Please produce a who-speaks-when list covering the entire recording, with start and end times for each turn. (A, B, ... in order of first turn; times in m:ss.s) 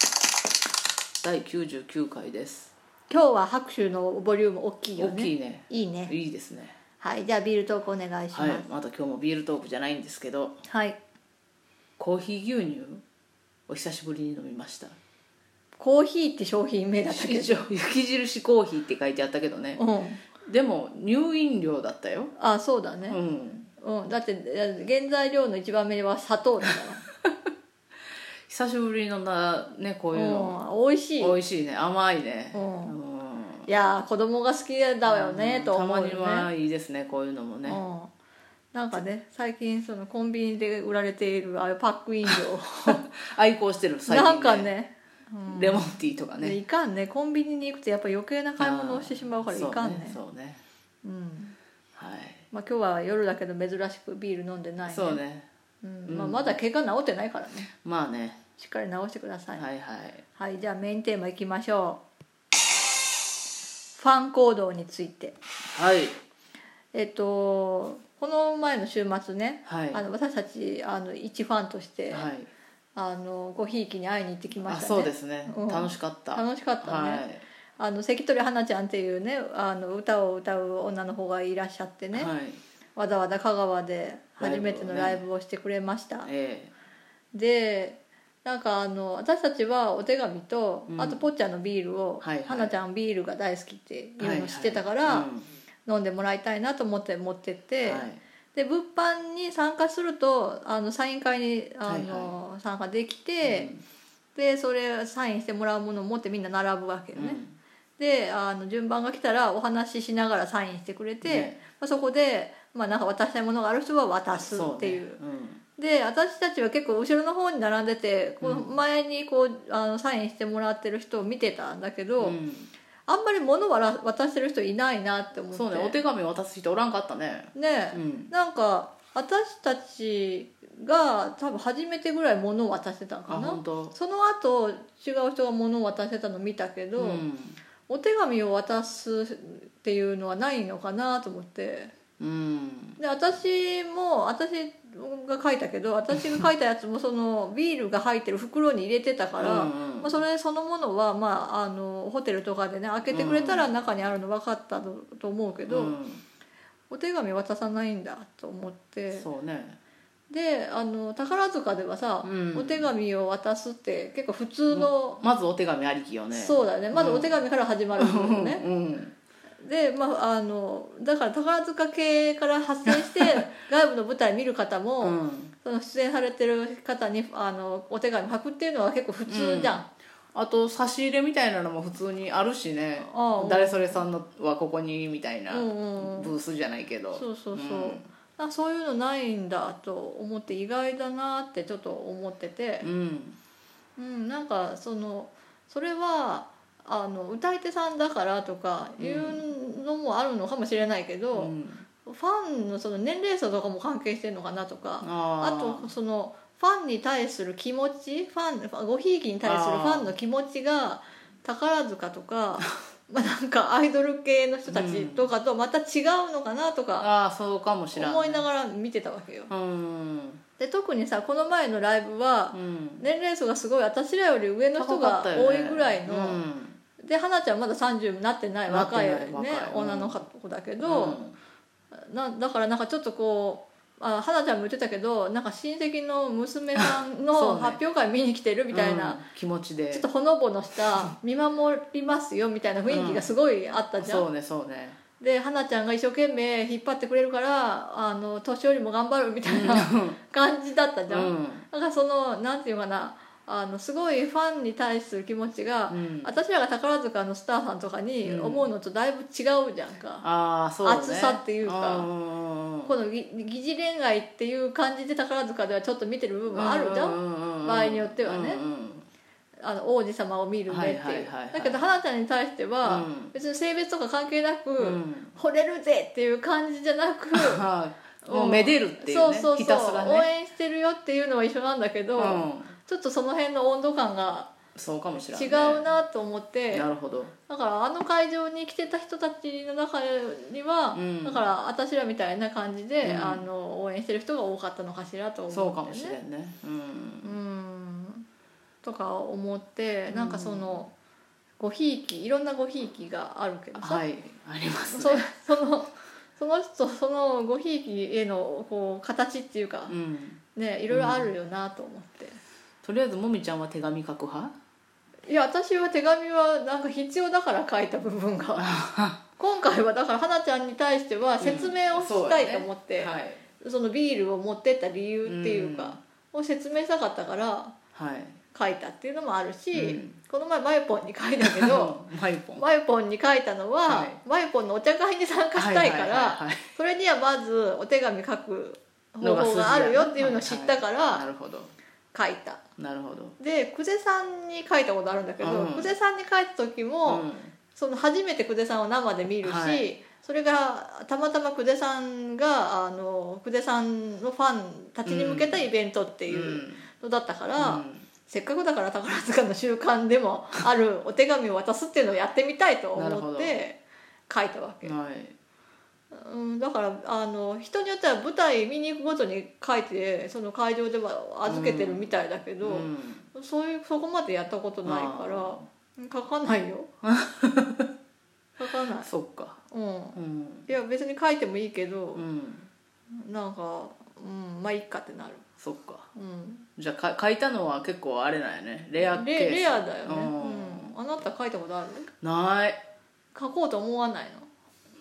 0:01.2-0:02.7 A
0:03.1-0:06.1 B
0:05.0-0:06.8 A
0:07.0-0:08.6 B
0:08.3-0:10.6 A
0:10.6-0:11.0 B
0:12.0-0:13.0 A
0:13.7-0:15.0 A
0:15.8-0:17.7 B
0:17.1-0:19.8 A
0:19.8-0:20.2 B
0:20.4-0:22.3 A
0:22.4-0:23.2 B
0:23.1-0:23.7 A
0:23.8-0:27.0 B
0:28.5-0:30.6 A
0:30.1-0:31.4 B
0:31.2-0:33.7 A
0:32.5-0:32.9 B
0:33.7-0:36.5 B
0:35.0-0:37.8 A
0:37.6-0:38.1 B
0:38.7-0:43.0 B
0:42.3-0:44.7 A
0:44.1-0:50.2 B
0:45.5-0:46.6 A
0:48.6-0:50.6 A
0:51.0-0:51.6 B
0:52.0-0:52.4 A
0:52.5-0:55.2 B
0:54.9-0:55.5 A
0:55.8-0:57.7 B
0:56.1-0:56.6 A
0:57.8-0:58.4 A
0:58.6-0:59.6 B
0:59.5-1:00.2 A
1:00.3-1:02.0 B
1:03.9-1:05.4 B
1:05.7-1:06.2 A
1:06.9-1:12.3 B
1:09.6-1:10.0 A
1:12.1-1:12.5 A
1:13.0-1:17.2 B
1:14.6-1:17.4 A
1:17.8-1:22.3 B
1:22.1-1:22.6 A
1:23.0-1:26.3 B
1:24.4-1:25.2 A
1:26.2-1:26.7 A
1:27.3-1:35.3 B
1:30.9-1:31.2 A
1:32.2-1:32.7 A
1:34.2-1:35.5 A
1:35.8-1:43.7 B
1:37.8-1:38.2 A
1:41.8-1:42.4 A
1:43.4-1:43.8 A
1:44.4-1:47.4 B
1:47.1-1:47.6 A
1:48.0-1:55.2 B
1:51.2-1:51.6 A
1:54.4-1:55.6 A
1:55.8-2:02.4 B
1:58.4-1:58.8 A
2:02.2-2:02.7 A
2:03.1-2:06.0 B
2:05.5-2:08.3 A
2:07.5-2:17.2 B
2:13.3-2:13.9 A
2:17.0-2:17.6 A
2:17.9-2:21.9 B
2:22.2-2:23.0 A
2:23.0-2:36.0 B
2:29.4-2:30.1 A
2:33.1-2:33.7 A
2:35.7-2:36.2 A
2:36.9-2:39.3 B
2:39.1-2:39.8 A
2:40.3-2:45.2 B
2:42.2-2:42.9 A
2:44.7-2:47.4 A
2:46.3-2:48.6 B
2:48.0-2:49.1 A
2:49.6-2:59.8 B
2:52.9-2:53.4 A
2:55.0-2:55.5 A
2:59.2-2:59.8 A
3:00.3-3:08.1 A
3:03.0-3:04.0 B
3:05.5-3:06.3 B
3:07.1-3:12.9 B
3:12.8-3:13.4 A
3:14.0-3:21.5 B
3:19.0-3:19.4 A
3:21.3-3:21.8 A
3:22.0-3:37.1 B
3:25.0-3:25.9 A
3:29.4-3:30.1 A
3:34.7-3:35.2 A
3:37.0-3:38.4 A
3:37.9-3:39.5 B
3:39.5-3:40.4 A
3:40.6-3:46.4 B
3:42.5-3:43.0 A
3:44.8-3:46.8 A
3:47.0-3:51.2 B
3:48.7-3:50.2 A
3:50.8-3:51.4 A
3:51.9-3:59.2 B
3:56.8-3:57.8 A
3:58.7-4:00.0 A
3:59.9-4:04.3 B
4:02.9-4:03.3 A
4:04.0-4:05.0 A
4:05.2-4:20.2 B
4:09.4-4:10.2 A
4:11.1-4:11.6 A
4:15.9-4:16.3 A
4:18.2-4:18.7 A
4:20.2-4:22.9 A
4:20.8-4:22.1 B
4:22.8-4:28.6 B
4:26.5-4:29.0 A
4:29.6-4:37.6 B
4:30.7-4:31.8 A
4:32.8-4:33.3 A
4:34.8-4:35.3 A
4:37.3-4:40.3 A
4:38.2-4:44.5 B
4:42.2-4:42.7 A
4:44.7-4:45.9 A
4:45.3-4:46.9 B
4:46.7-4:47.3 A
4:47.5-4:56.2 B
4:50.9-4:51.4 A
4:53.0-4:53.4 A
4:55.5-4:57.4 A
4:57.2-4:58.2 B
4:58.8-5:00.9 B
5:00.1-5:00.8 A
5:01.6-5:04.0 B
5:03.8-5:05.2 A
5:04.9-5:09.9 B
5:09.9-5:11.3 A
5:10.5-5:12.4 B
5:12.8-5:14.5 A
5:15.3-5:18.8 B
5:18.6-5:19.2 A
5:19.4-5:27.7 B
5:21.4-5:23.4 A
5:25.2-5:26.0 A
5:27.9-5:28.4 A
5:28.5-5:32.0 B
5:29.7-5:30.2 A
5:31.4-5:32.6 A
5:32.6-5:41.3 B
5:33.9-5:34.2 A
5:35.5-5:36.7 A
5:39.2-5:41.7 A
5:42.1-5:42.6 B
5:42.8-5:43.3 A
5:43.4-6:04.9 B
5:45.4-5:45.9 A
5:47.0-5:47.5 A
5:49.4-5:49.9 A
5:55.0-5:55.6 A
5:56.3-5:56.8 A
5:57.6-5:58.0 A
6:02.9-6:03.6 A
6:04.8-6:05.3 A
6:06.1-6:16.9 B
6:11.5-6:12.1 A
6:12.6-6:13.2 A
6:14.8-6:15.6 A
6:17.0-6:17.9 A
6:18.6-6:19.1 B
6:19.0-6:19.6 A
6:19.7-6:22.2 B
6:20.2-6:20.7 A
6:22.1-6:22.7 A
6:23.1-6:25.4 B
6:25.6-6:26.1 A
6:26.1-6:26.7 B
6:26.8-6:30.9 A
6:29.0-6:32.1 B
6:32.2-6:32.8 A
6:33.3-6:34.5 B